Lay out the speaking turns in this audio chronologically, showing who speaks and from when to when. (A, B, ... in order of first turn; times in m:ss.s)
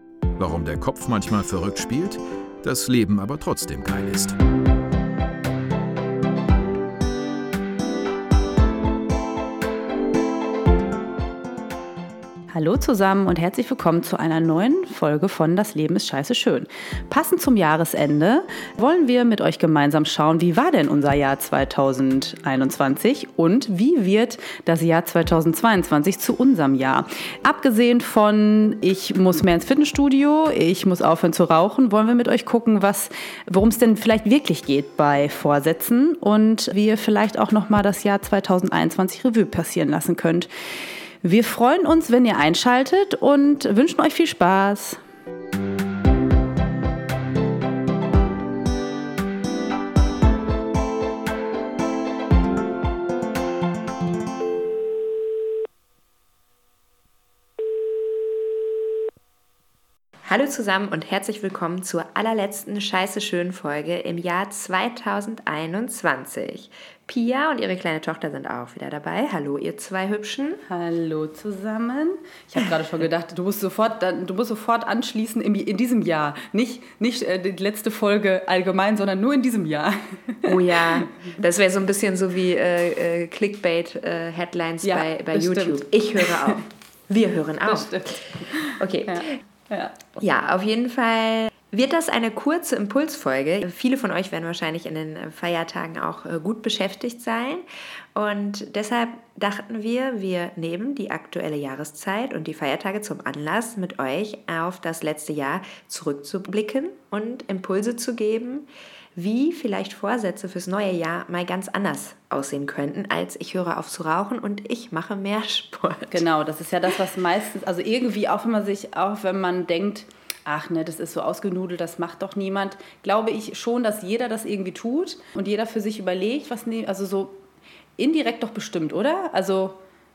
0:00.4-0:04.4 A
0:12.5-0:40.5 B
0:41.2-0:45.0 B
1:00.2-1:10.6 C
1:10.7-1:21.4 B
1:20.4-1:29.3 C
1:24.8-1:26.6 B
1:27.6-1:30.0 B
1:30.2-1:56.2 C
1:56.1-2:07.4 B
2:08.0-2:09.8 B